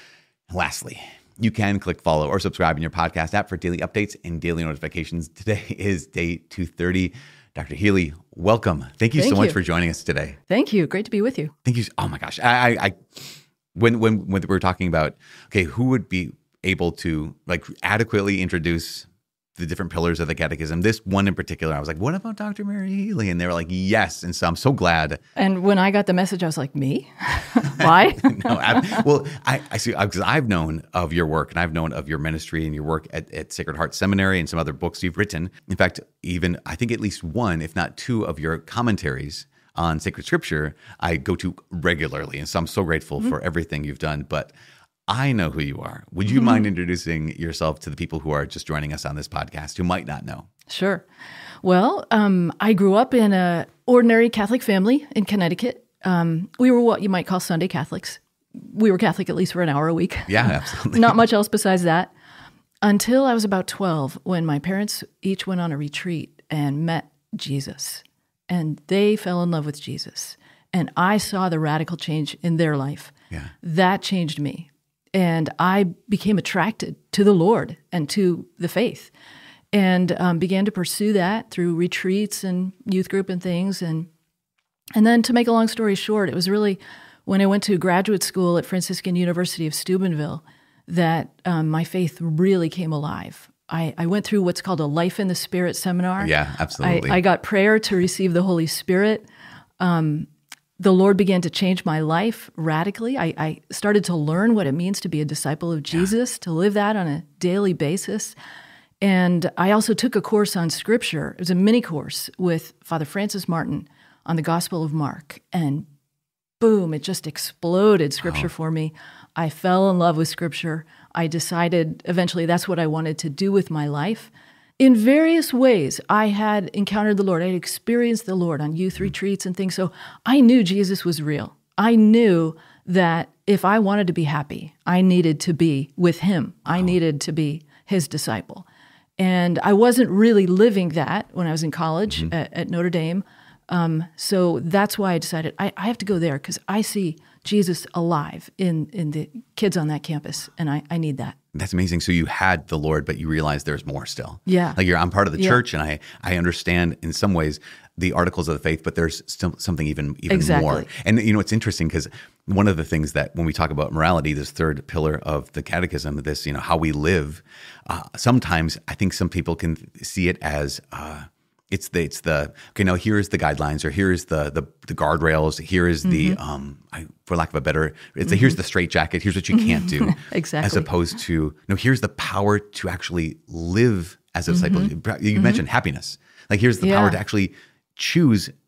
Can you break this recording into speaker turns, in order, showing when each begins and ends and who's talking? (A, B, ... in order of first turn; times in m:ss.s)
0:00.5-0:10.4 A
0:09.2-0:09.6 B
0:10.5-0:11.5 B
0:11.6-0:25.2 A
0:25.4-0:29.0 B
0:27.7-0:44.5 A
0:45.1-0:50.5 A
0:46.3-0:46.6 B
0:50.7-0:51.0 B
0:51.6-1:02.1 B
1:00.3-1:01.2 A
1:02.8-1:19.1 B
1:19.7-1:24.1 B
1:24.9-1:39.3 B
1:36.2-1:37.2 A
1:39.8-1:48.4 B
1:49.0-1:55.9 B
1:56.6-2:18.6 B
1:58.2-1:58.5 A
2:19.2-2:31.4 B
2:31.5-3:08.5 A
2:34.5-2:34.8 B
2:35.4-2:35.6 B
2:40.3-2:40.9 B
2:56.0-2:56.4 B
2:58.2-2:58.6 B
2:59.5-3:00.9 B
3:04.5-3:05.6 B
3:06.8-3:07.2 B